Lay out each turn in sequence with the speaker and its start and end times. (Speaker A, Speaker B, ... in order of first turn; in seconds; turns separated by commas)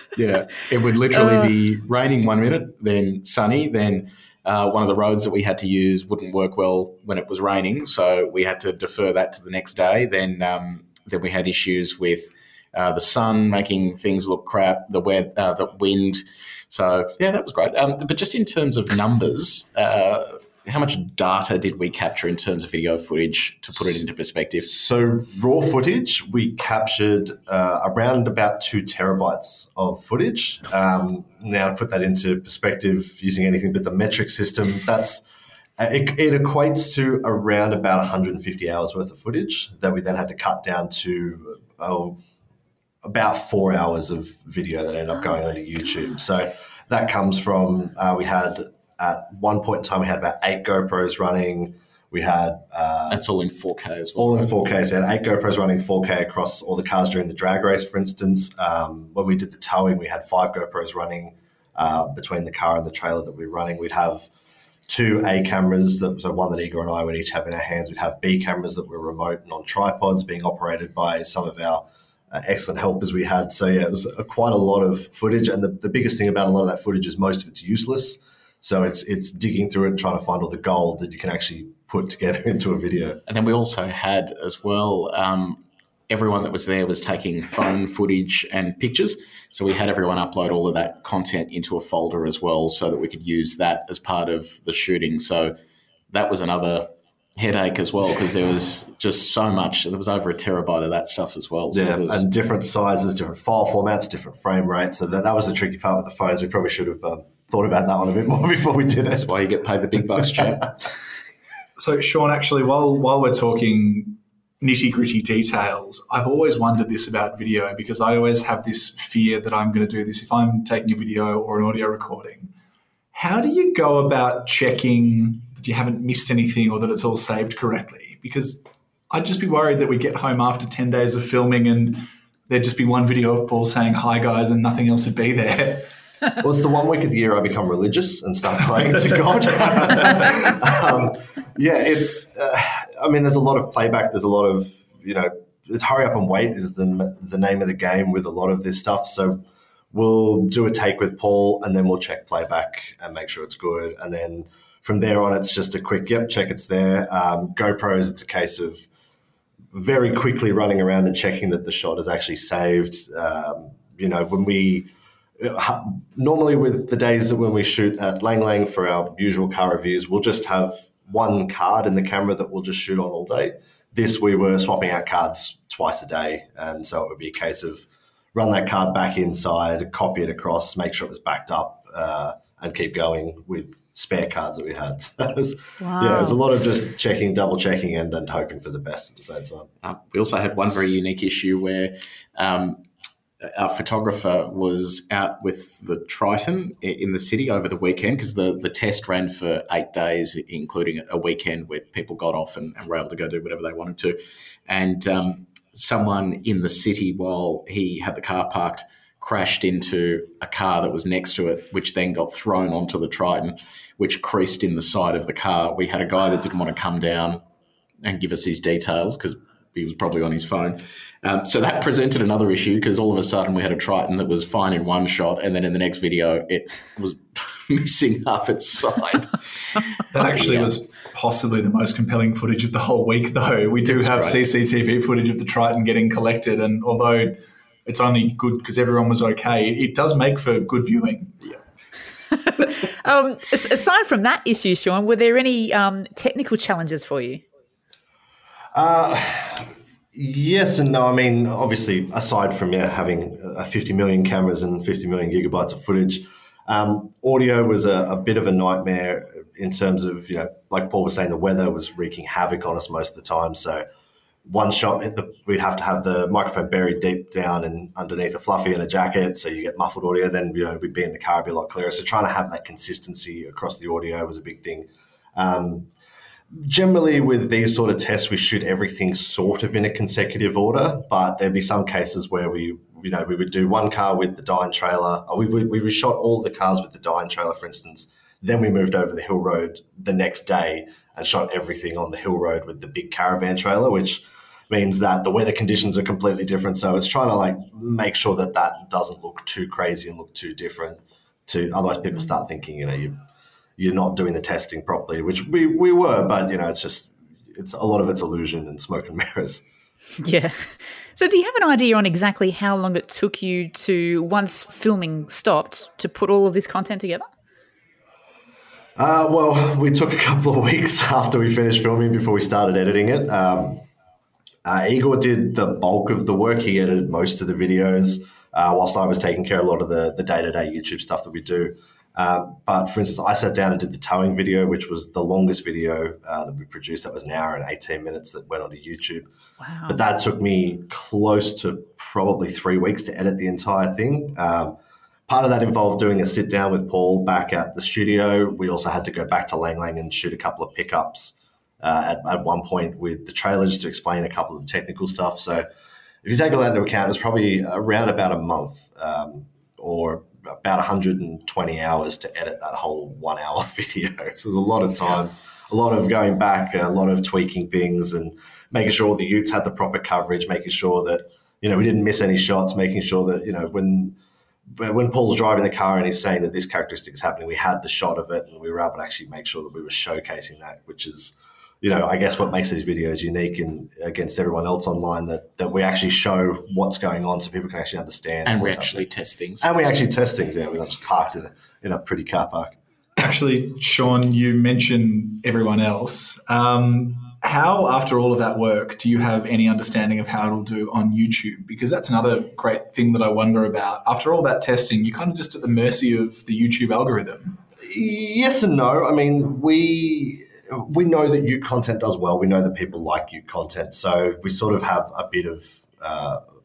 Speaker A: 0.1-24.7, Speaker B: 24.7-35.2, Speaker B: 35.8-42.2, Speaker B: 43.0-53.2, Speaker A: 53.1-54.5, Speaker B: 54.2-64.3, Speaker B: 64.9-83.2, Speaker A: 83.3-95.5, Speaker A: 96.1-102.2, Speaker B: 101.7-109.3, Speaker A: 109.1-110.7, Speaker C: 111.8-122.5, Speaker C: 123.1-135.9, Speaker B: 136.4-158.9, Speaker B: 159.7-189.7, Speaker D: 185.8-186.4, Speaker A: 189.8-192.8, Speaker A: 193.4-217.4, Speaker A: 218.0-229.4, Speaker C: 230.1-241.3, Speaker A: 230.1-230.7, Speaker A: 233.9-234.4, Speaker D: 242.3-247.4, Speaker B: 248.7-263.9, Speaker B: 264.4-275.9, Speaker B: 276.5-303.2, Speaker B: 303.8-309.6, Speaker D: 310.2-317.3, Speaker B: 319.0-323.8, Speaker B: 324.6-339.3, Speaker D: 339.6-340.0, Speaker B: 339.9-344.8, Speaker B: 345.3-355.7, Speaker B: 356.2-374.1, Speaker B: 374.8-389.0, Speaker A: 388.4-389.7, Speaker B: 389.6-392.7, Speaker C: 393.2-407.6, Speaker B: 407.8-416.4